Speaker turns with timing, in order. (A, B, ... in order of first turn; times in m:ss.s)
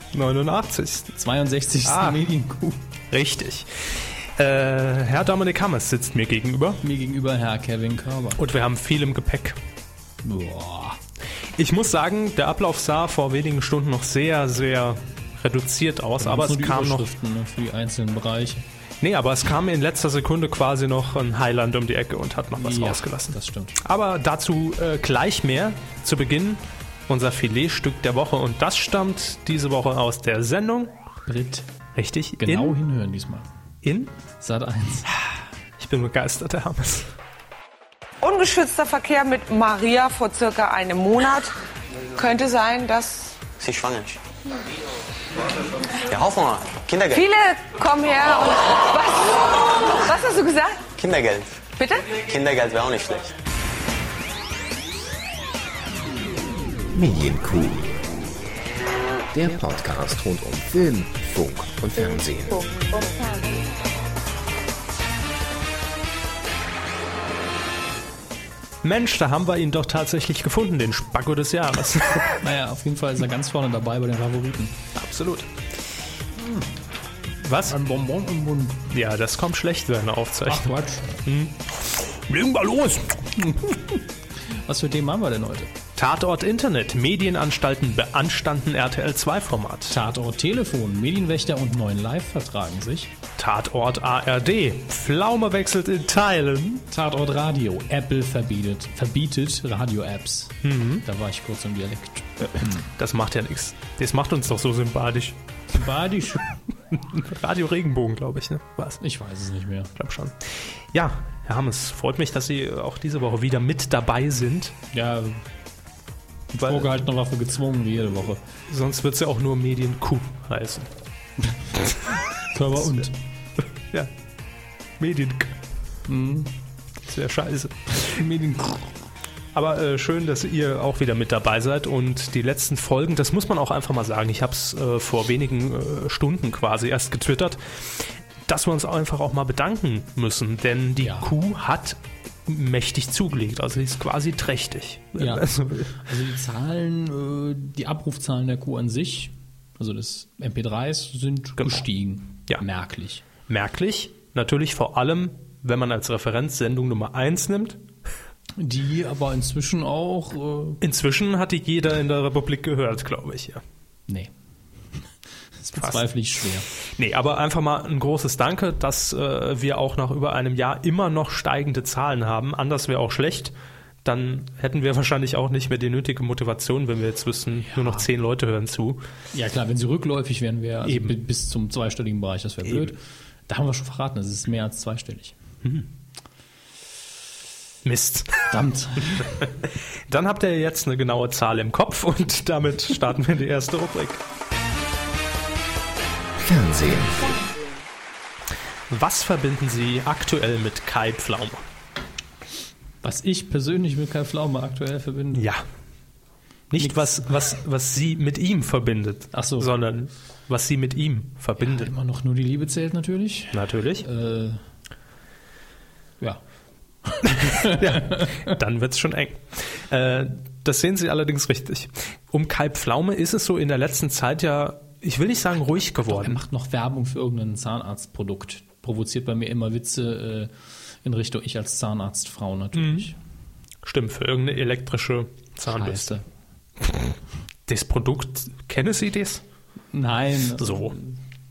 0:00.1-0:01.1 A
0:01.2-0:02.8 B
0:01.8-0:02.2 A
0:03.1-0:06.8 A
0:06.8-0:08.4 B
0:08.4-0:09.6 A
0:10.2-0:11.0 B
0:11.6-0:17.1 A
0:16.2-0:18.6 B
0:19.0-0:30.9 A
0:22.6-0:23.8 B
0:31.3-0:31.7 B
0:32.0-0:32.8 A
0:32.4-0:33.5 B
0:33.8-0:34.1 A
0:34.4-0:35.1 B
0:35.8-0:37.1 A
0:38.2-0:41.6 C
0:42.1-0:43.4 C
0:43.5-0:44.2 D
0:46.0-0:47.3 D
0:47.2-0:50.9 C
0:50.9-0:53.3 D
0:51.8-0:52.1 C
0:56.9-0:58.2 E
0:59.3-1:03.4 E
1:08.8-1:12.4 A
1:12.4-1:14.8 B
1:15.0-1:15.5 A
1:16.4-1:16.7 B
1:17.4-1:17.7 A
1:17.6-1:18.9 B
1:18.9-1:23.4 A
1:20.5-1:21.2 B
1:23.4-1:25.7 B
1:26.0-1:30.0 A
1:29.9-1:33.1 B
1:33.4-1:36.8 A
1:36.9-1:42.9 B
1:40.6-1:41.0 A
1:43.0-1:45.4 A
1:45.7-1:46.6 B
1:46.9-1:49.0 A
1:49.0-1:49.9 B
1:50.0-1:54.8 A
1:54.9-1:55.4 B
1:56.5-1:58.4 B
1:56.6-1:57.0 A
1:58.7-2:00.9 A
2:02.4-2:03.1 B
2:02.8-2:03.1 A
2:05.0-2:05.6 A
2:06.1-2:06.5 B
2:07.1-2:08.2 A
2:08.1-2:08.9 B
2:09.5-2:25.9 A
2:21.0-2:21.3 B
2:25.2-2:33.2 B
2:33.5-2:37.8 A
2:38.6-2:40.8 B
2:40.8-2:43.6 A
2:45.6-2:46.7 B
2:45.8-2:46.1 A
2:46.8-2:59.0 A
2:57.6-2:58.1 B
2:59.3-3:05.4 B
3:00.8-3:01.2 A
3:07.8-3:08.5 A
3:08.5-3:09.4 B
3:09.2-3:14.2 A
3:16.4-3:17.5 E
3:18.9-3:21.6 A
3:23.0-3:25.5 B
3:25.3-3:25.6 A
3:26.7-3:31.9 A
3:26.8-3:27.1 B
3:29.3-3:29.7 B
3:31.6-3:34.6 B
3:33.5-3:34.0 A
3:37.1-3:38.5 B
3:37.3-3:46.4 A
3:46.1-3:50.5 B
3:51.0-3:53.2 B
3:52.7-3:53.1 A
3:53.8-3:56.2 A
3:55.7-3:56.2 B
3:56.8-3:57.1 A
3:57.7-3:59.4 A
3:59.9-4:01.2 B
4:00.6-4:01.0 A